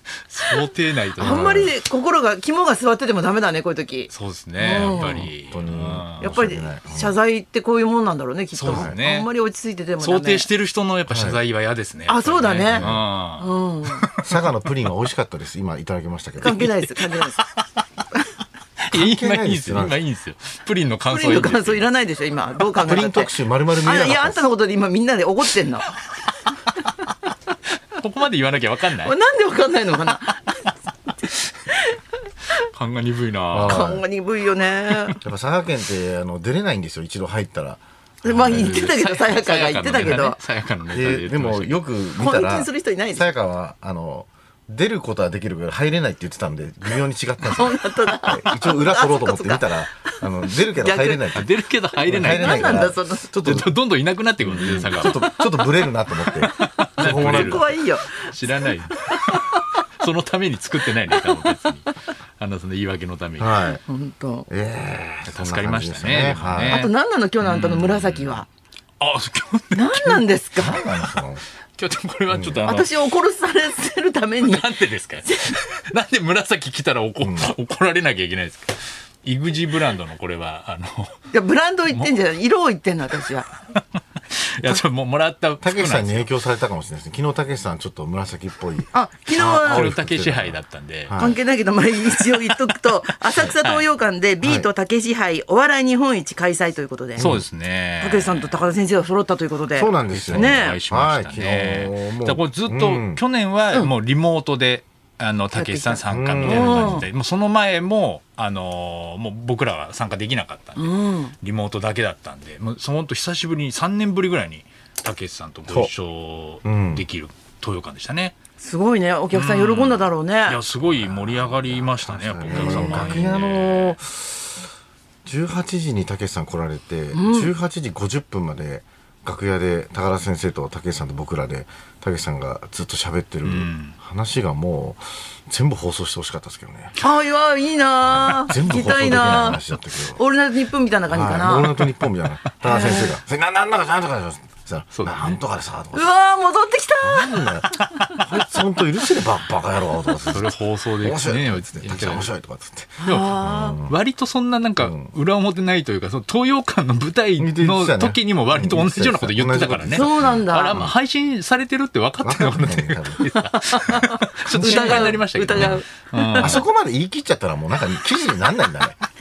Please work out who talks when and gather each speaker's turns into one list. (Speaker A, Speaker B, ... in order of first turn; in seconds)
Speaker A: 0.3-1.7, 4.1-6.3, 8.5-9.3, 10.0-14.4, 16.7-17.8, 18.8-21.9, 27.9-29.1, 32.7-33.9, 38.4-41.8, 51.3-55.7, 56.4-63.8, 65.3-68.4, 69.0-70.2, 71.8-73.0, 74.4-81.2, 84.5-86.3, 89.7-91.2, 92.2-92.5, 93.3-93.8, 97.2-98.5, 100.1-118.3, 119.3-124.0, 133.4-133.9, 144.9-145.4, 147.8-148.1, 150.3-152.3, 153.1-166.6
Speaker B: 1.2-1.7, 4.8-7.2, 8.7-9.0, 11.1-11.4, 12.7-13.0, 14.2-16.7, 18.9-20.0, 22.9-24.4, 33.5-34.0, 35.2-38.8, 40.9-53.7, 54.4-57.7, 63.4-63.8, 64.5-66.8, 70.6-71.4, 72.3-72.6, 77.2-77.5, 85.6-91.4, 94.4-94.7, 97.2-97.5, 99.7-103.2, 106.0-107.0, 116.6-117.0, 120.8-124.6, 125.2-136.9, 138.2-140.2, 141.1-146.1, 147.0-153.9, 154.8-155.1, 157.4-160.9, 162.2-165.8, 166.4-169.0
Speaker C: 1.2-5.3, 6.2-10.5, 12.1-14.0, 16.4-17.4, 21.1-25.9, 29.0-30.7, 31.7-32.6, 33.6-35.2, 38.2-40.4, 42.2-43.3, 47.5-51.3, 52.1-53.3, 57.0-59.6, 61.1-61.5, 63.8-64.5, 66.7-68.5, 69.7-70.8, 72.6-75.6, 81.3-83.5, 88.9-89.9, 91.2-97.3, 98.0-100.8, 105.5-107.0, 110.8-111.3, 118.6-120.6, 122.5-123.3, 127.1-127.5, 137.0-141.8, 142.6-143.1, 145.9-147.5, 153.0-153.8, 159.9-160.8, 163.6-166.6